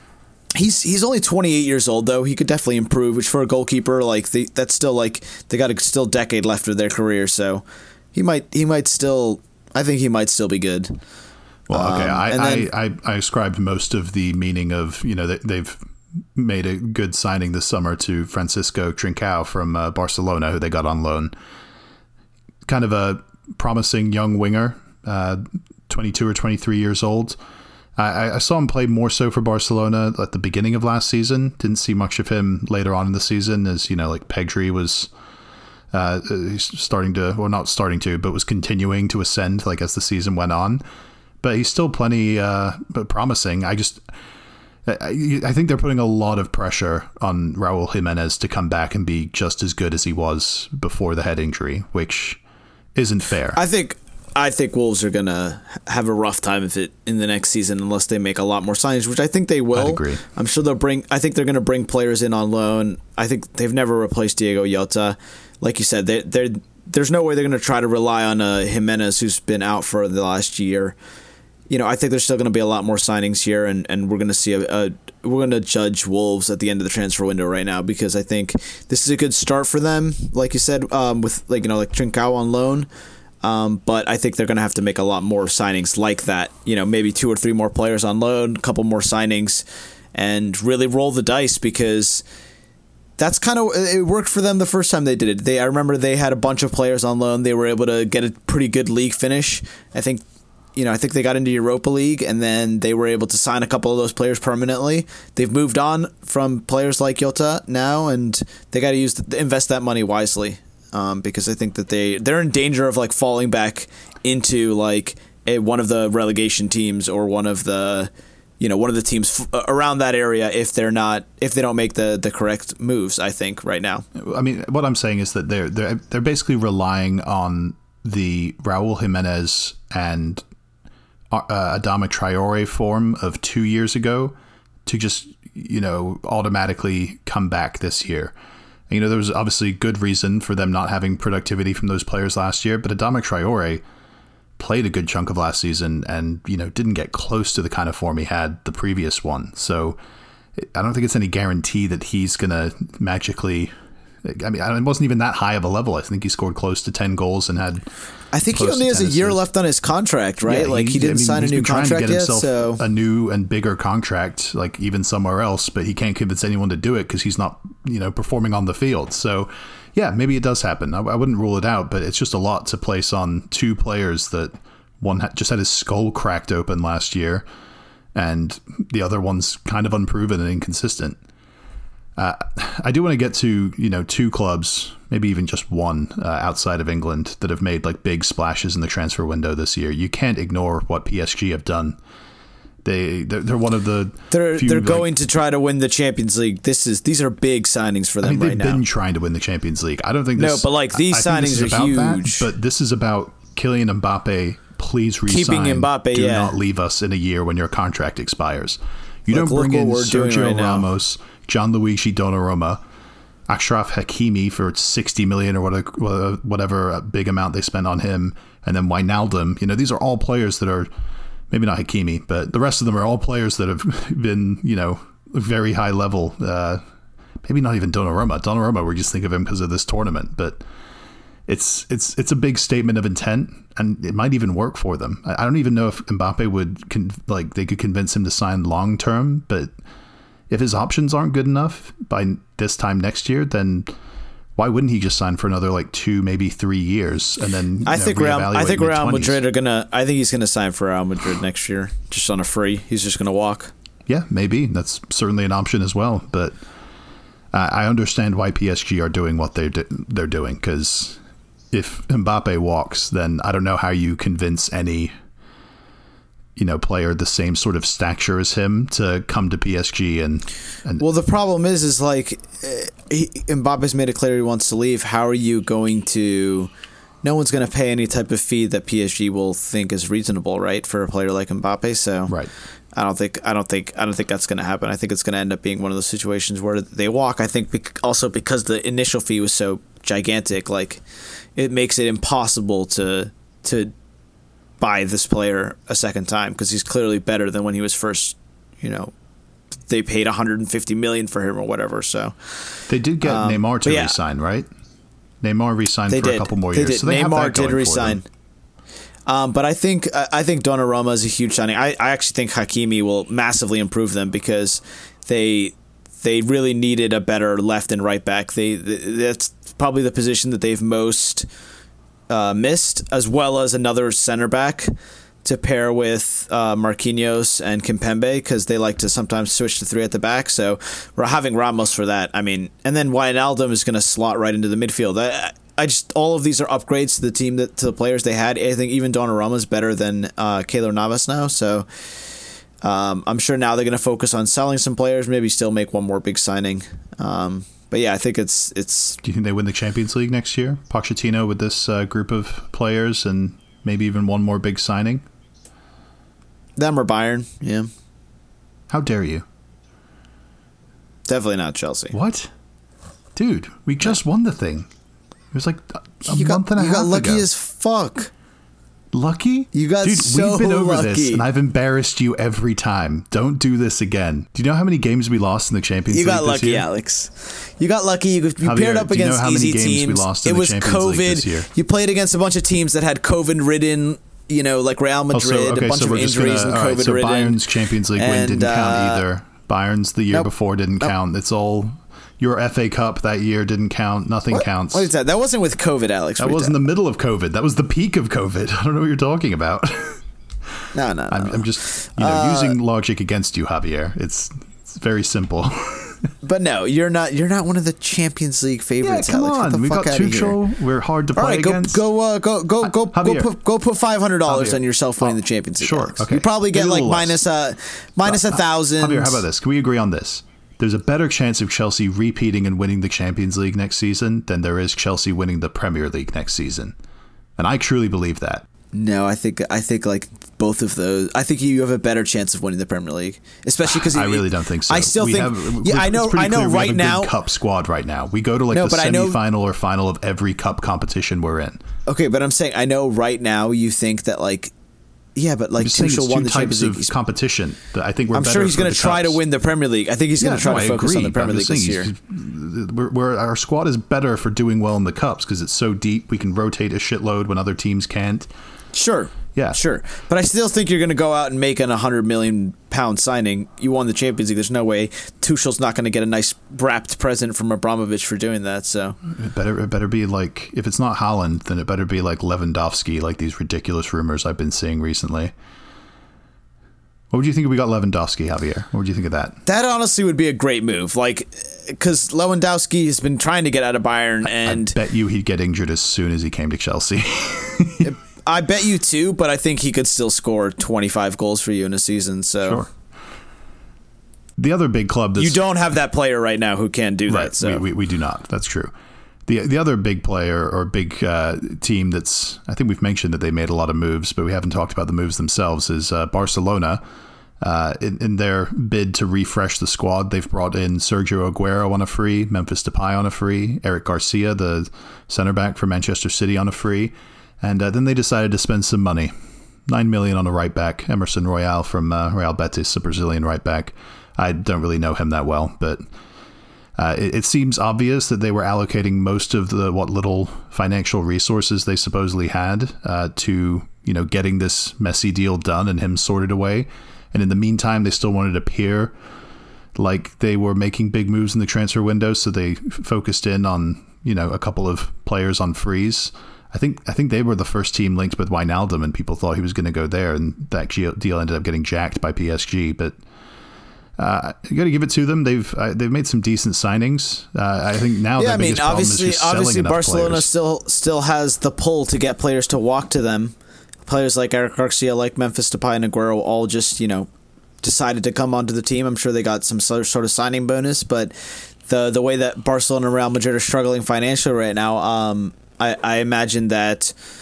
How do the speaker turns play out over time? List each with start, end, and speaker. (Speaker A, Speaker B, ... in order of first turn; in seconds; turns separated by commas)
Speaker A: 0.5-11.0, Speaker B: 11.7-15.8, Speaker A: 11.7-12.7, Speaker B: 16.3-21.3, Speaker B: 22.6-27.4, Speaker B: 28.0-35.1, Speaker B: 35.9-40.8, Speaker B: 41.4-44.0, Speaker B: 44.9-52.4, Speaker B: 52.9-53.6, Speaker A: 53.5-70.9, Speaker B: 59.7-60.2, Speaker A: 71.7-82.9, Speaker A: 83.4-92.2, Speaker A: 93.2-100.2, Speaker A: 100.8-124.0, Speaker B: 124.1-130.4, Speaker B: 131.3-138.3, Speaker B: 138.9-143.8, Speaker B: 144.6-150.0, Speaker B: 150.6-153.7, Speaker B: 154.2-157.8, Speaker A: 158.3-162.8, Speaker B: 158.5-159.4, Speaker B: 160.4-177.4, Speaker B: 178.1-181.2, Speaker B: 182.2-192.0, Speaker B: 192.8-195.1, Speaker A: 194.3-198.8, Speaker B: 198.2-212.8, Speaker A: 200.3-202.5, Speaker A: 205.3-206.5, Speaker A: 209.3-210.9, Speaker B: 213.5-220.9, Speaker B: 221.5-226.8, Speaker B: 227.4-230.6, Speaker B: 231.5-239.7, Speaker B: 240.5-243.9, Speaker B: 244.6-249.4, Speaker A: 247.8-253.7, Speaker B: 254.1-256.6, Speaker B: 257.5-261.2, Speaker B: 261.7-265.1, Speaker B: 266.6-271.0, Speaker A: 271.0-276.7, Speaker A: 277.2-282.3, Speaker A: 282.9-291.0, Speaker A: 291.6-293.9, Speaker A: 294.8-299.1, Speaker A: 299.9-304.2, Speaker B: 302.9-304.7, Speaker B: 305.4-308.2, Speaker A: 306.1-308.2, Speaker A: 309.3-321.5, Speaker A: 322.3-341.9, Speaker A: 342.8-349.2, Speaker B: 349.2-355.2, Speaker A: 356.8-357.9, Speaker B: 358.9-359.4, Speaker A: 361.3-362.1, Speaker B: 362.1-362.5, Speaker B: 363.3-364.9, Speaker B: 365.5-367.4, Speaker A: 366.3-368.3, Speaker B: 369.1-376.9, Speaker A: 369.7-371.4, Speaker A: 376.1-389.2, Speaker B: 378.6-381.7, Speaker B: 385.3-395.1, Speaker A: 390.3-391.1, Speaker A: 394.5-396.8, Speaker B: 396.4-400.2, Speaker A: 400.9-402.8, Speaker B: 401.3-406.3, Speaker A: 406.4-410.6, Speaker B: 409.0-412.0, Speaker A: 411.3-419.4, Speaker B: 412.8-413.5, Speaker B: 414.4-417.4, Speaker B: 418.2-426.9, Speaker B: 427.6-428.6, Speaker A: 428.9-437.3, Speaker B: 433.9-441.8, Speaker A: 438.7-439.4, Speaker A: 442.1-444.7, Speaker A: 445.3-447.1, Speaker B: 445.8-449.4, Speaker A: 448.3-452.1, Speaker B: 450.4-458.5, Speaker A: 458.9-469.2, Speaker B: 469.3-475.5, Speaker B: 477.3-479.6, Speaker A: 479.6-484.9, Speaker B: 484.4-488.1, Speaker A: 488.0-492.8, Speaker B: 492.6-492.9, Speaker B: 494.6-495.6, Speaker A: 495.4-497.8, Speaker B: 497.3-498.9, Speaker B: 499.5-507.0, Speaker B: 507.6-519.3, Speaker B: 519.9-526.0, Speaker B: 527.0-539.1, Speaker B: 540.0-553.1, Speaker B: 554.2-560.5, Speaker A: 558.4-563.5, Speaker A: 564.0-567.3, Speaker A: 567.8-577.1